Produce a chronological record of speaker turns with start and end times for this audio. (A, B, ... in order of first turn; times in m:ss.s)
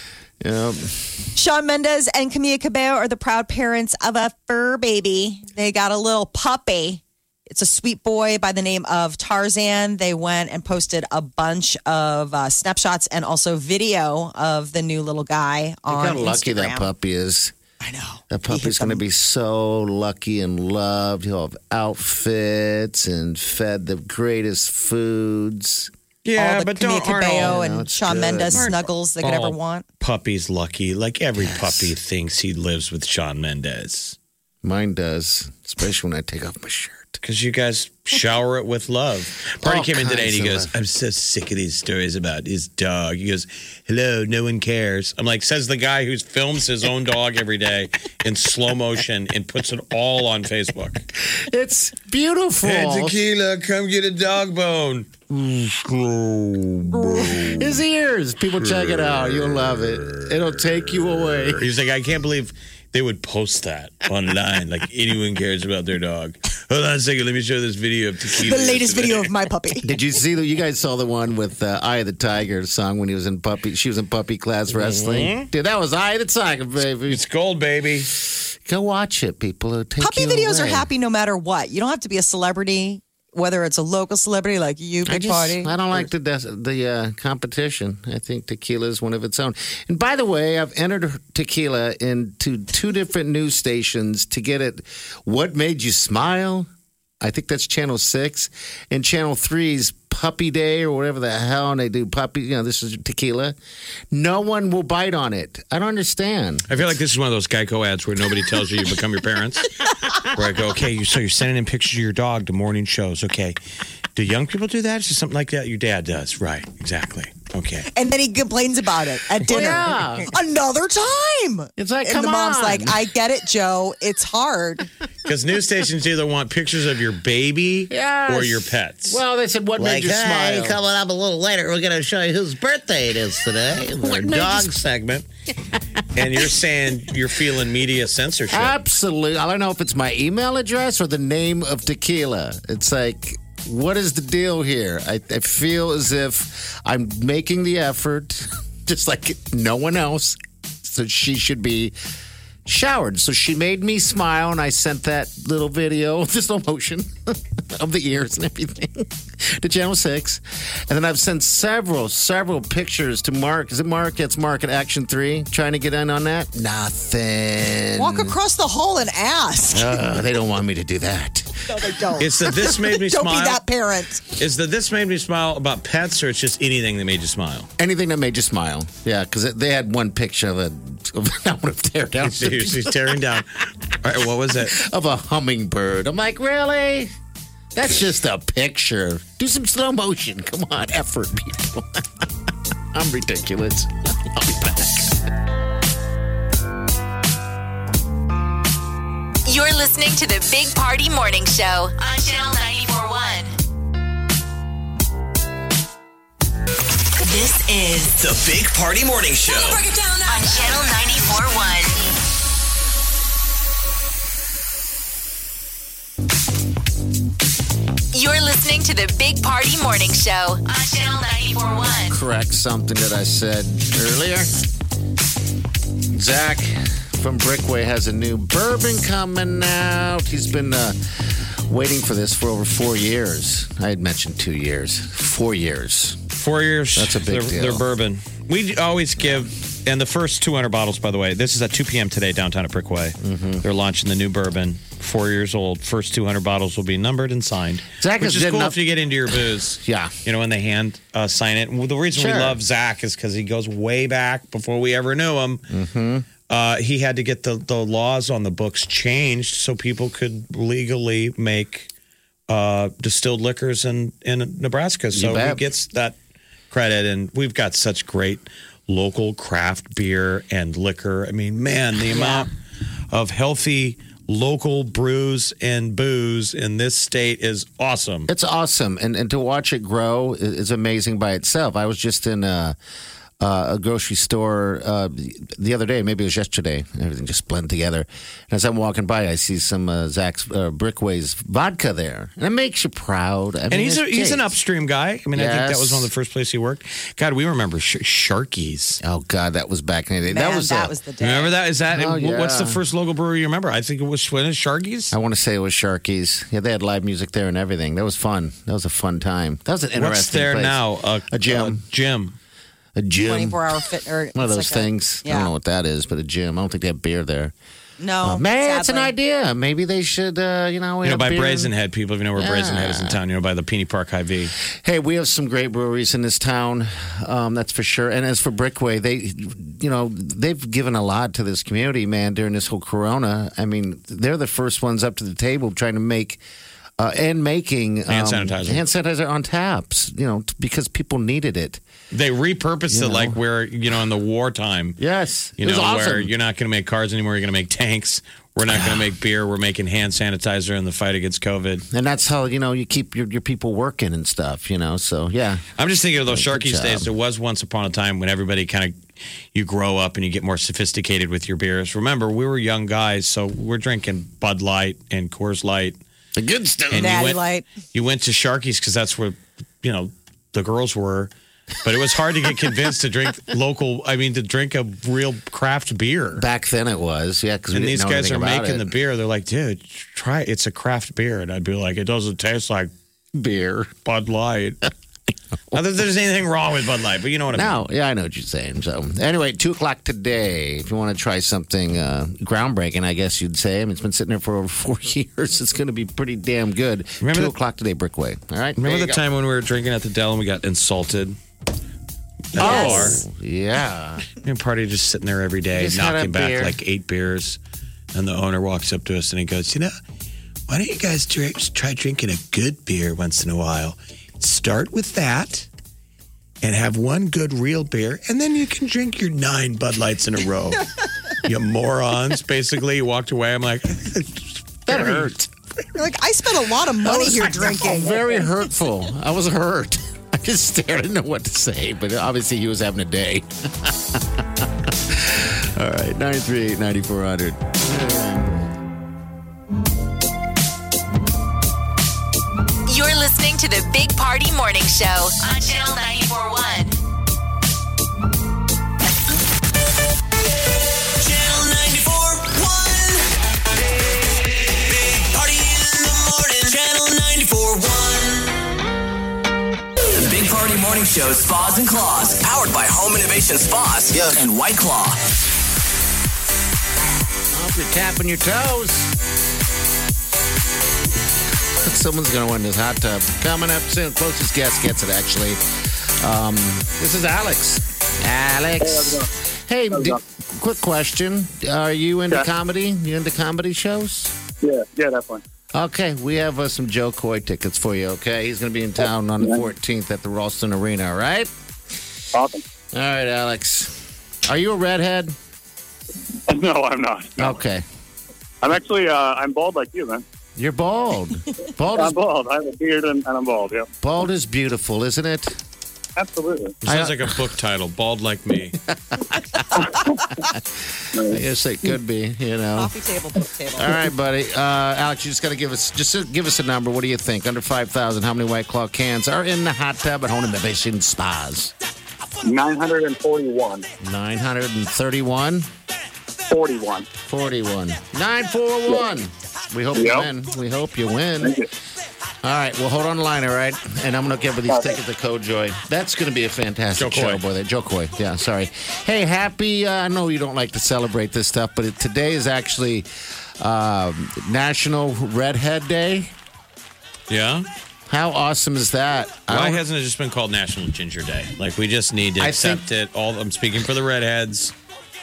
0:00.4-0:01.2 A
0:01.4-0:16.9 B
0:15.9-0:17.5 A
0:17.8-0:19.0 B
0:18.3-0:25.9 A
0:26.2-0:27.6 C
0:26.4-0:29.8 B
0:27.3-0:28.7 A
0:28.5-0:34.2 C
0:31.4-0:31.9 A
0:34.6-0:37.2 A
0:37.2-0:51.0 C
0:39.6-0:40.7 A
0:51.3-0:53.2 A
0:52.6-0:57.8 C
0:57.0-1:01.6 A
0:58.6-1:09.3 C
1:08.4-1:09.9 B
1:09.8-1:17.2 A
1:14.7-1:15.5 C
1:17.0-1:18.1 C
1:18.2-1:20.9 A
1:20.0-1:25.8 B
1:25.1-1:36.7 A
1:37.2-1:43.6 A
1:44.1-1:46.7 A
1:46.7-1:53.6 C
1:54.1-1:57.9 C
1:57.9-2:04.9 B
1:59.4-2:00.3 A
2:01.8-2:03.0 A
2:05.2-2:09.2 C
2:07.9-2:10.8 A
2:09.8-2:15.3 C
2:13.6-2:14.8 A
2:16.1-2:18.7 C
2:18.5-2:31.9 A
2:32.6-2:48.4 A
2:48.0-2:50.0 B
2:49.7-2:51.6 A
2:51.7-2:54.2 B
2:52.2-2:53.6 C
2:54.3-2:57.7 C
2:57.8-3:03.3 A
3:02.2-3:04.8 C
3:04.6-3:07.1 A
3:07.7-3:12.3 A
3:12.9-3:15.2 A
3:19.4-3:23.5 D
3:27.2-3:28.2 D
3:28.2-3:29.8 E
3:30.2-3:32.0 D
3:38.1-3:42.2 D
3:42.1-3:44.5 A
3:46.1-3:56.2 A
3:56.4-4:15.6 C
3:57.0-3:57.8 A
4:03.2-4:03.6 A
4:08.0-4:08.8 A
4:09.3-4:10.2 A
4:12.1-4:12.6 A
4:15.7-4:16.3 A
4:16.5-4:21.9 C
4:22.5-4:26.2 C
4:25.1-4:25.6 A
4:26.7-4:32.5 C
4:33.1-4:38.3 C
4:38.3-4:42.8 A
4:43.4-4:54.5 A
4:53.7-4:59.0 C
4:55.3-4:56.1 A
4:59.0-5:00.9 A
5:00.3-5:01.5 B
5:01.2-5:05.1 C
5:01.9-5:02.8 A
5:05.1-5:11.8 A
5:10.0-5:12.4 C
5:13.0-5:13.7 A
5:13.2-5:15.5 B
5:14.3-5:17.5 A
5:18.0-5:19.1 B
5:18.2-5:21.7 A
5:21.0-5:24.5 C
5:22.4-5:23.2 A
5:24.6-5:36.4 A
5:37.0-5:41.8 A
5:38.1-5:38.8 C
5:42.1-5:45.0 C
5:42.9-5:43.4 A
5:45.0-5:46.3 A
5:45.6-5:51.8 C
5:48.7-5:49.1 A
5:51.9-5:55.6 A
5:55.8-5:59.0 C
5:56.3-5:57.1 A
5:59.5-6:06.0 C
6:06.4-6:07.2 A
6:06.9-6:07.4 C
6:07.0-6:07.7 B
6:07.9-6:11.3 C
6:11.8-6:16.4 C
6:16.3-6:18.9 A
6:17.7-6:22.9 C
6:23.3-6:23.9 A
6:24.0-6:24.8 C
6:25.7-6:27.8 C
6:27.5-6:39.2 A
6:37.2-6:37.5 C
6:38.8-6:41.4 C
6:42.5-6:43.2 C
6:42.5-6:44.3 A
6:42.6-6:43.1 B
6:44.4-6:47.6 C
6:45.7-6:46.8 A
6:48.1-6:49.9 C
6:50.7-6:55.7 C
6:56.6-7:00.9 C
7:01.4-7:05.3 C
7:04.9-7:05.5 A
7:06.0-7:08.5 B
7:07.0-7:18.6 A
7:22.9-7:27.0 D
7:31.0-7:33.3 E
7:33.8-7:38.5 E
7:40.1-7:45.2 E
7:47.5-7:49.2 A
7:51.8-8:04.3 A
7:58.8-7:59.3 F
7:59.9-8:00.2 F
8:04.6-8:05.4 F
8:05.7-8:11.5 A
8:09.4-8:09.6 F
8:12.3-8:12.6 F
8:12.9-8:15.4 A
8:16.5-8:17.6 F
8:17.4-8:17.8 A
8:18.6-8:20.2 F
8:20.6-8:22.2 A
8:21.9-8:23.9 F
8:24.0-8:25.6 A
8:26.2-8:26.8 F
8:26.8-8:28.8 C
8:26.8-8:27.5 A
8:28.8-8:32.9 A
8:31.1-8:31.4 F
8:32.8-8:34.1 B
8:33.8-8:41.7 A
8:42.4-8:43.8 F
8:44.0-8:45.7 A
8:46.5-8:47.0 F
8:47.2-8:51.6 A
8:49.9-8:50.3 F
8:51.4-8:51.7 F
8:52.4-9:03.1 A
8:54.7-8:55.0 F
8:57.0-8:57.4 C
9:03.6-9:06.3 A
9:07.3-9:07.6 C
9:08.1-9:09.8 A
9:09.5-9:14.7 C
9:12.4-9:12.8 A